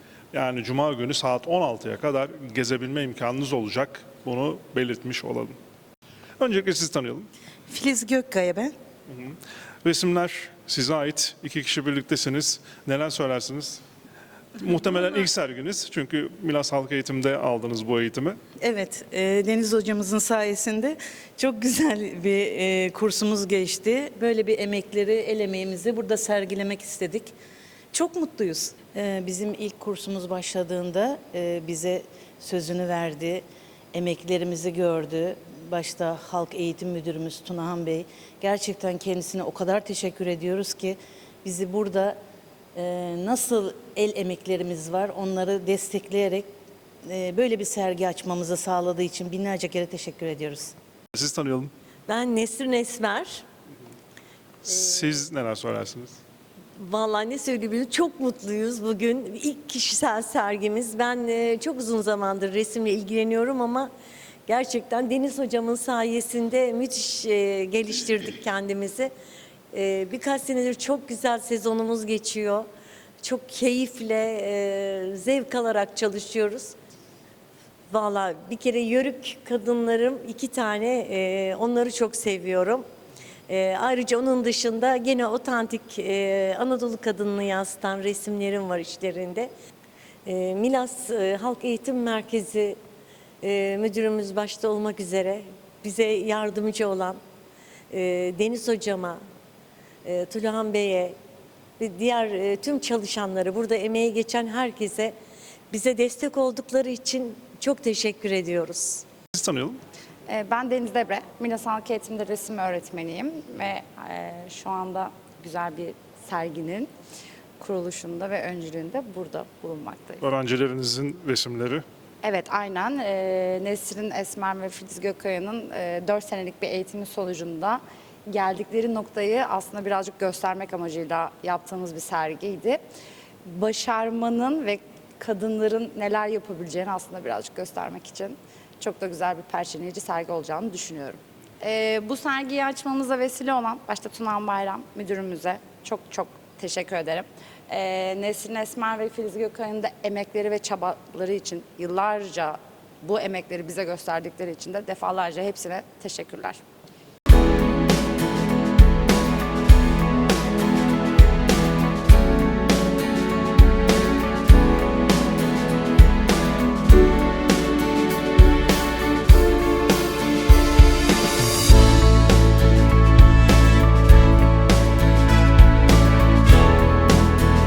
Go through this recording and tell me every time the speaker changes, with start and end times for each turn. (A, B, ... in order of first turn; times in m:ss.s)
0:00.3-0:05.6 A
0:06.4-0:07.3 A
0:07.7-0:08.7 B
0:09.1-0:13.8 A
0:14.6-0:18.4 A
0:18.6-0:27.4 B
0:27.9-0:42.2 B
0:42.8-0:46.5 B
0:47.0-0:50.8 B
0:51.1-0:51.7 A
0:52.1-0:53.4 C
0:54.6-0:56.2 A
0:56.8-1:03.9 C
1:04.5-1:09.1 C
1:09.7-1:12.7 C
1:13.2-1:16.8 C
1:17.9-1:22.9 C
1:23.5-1:29.5 C
1:30.2-1:32.8 C
1:33.4-1:37.2 C
1:37.9-1:39.2 C
1:40.0-1:41.2 C
1:41.8-1:45.2 C
1:45.7-1:49.0 C
1:49.3-1:49.8 A
1:50.3-1:56.9 D
1:57.6-2:00.2 D
2:00.2-2:01.8 A
2:02.2-2:12.8 D
2:13.4-2:36.6 D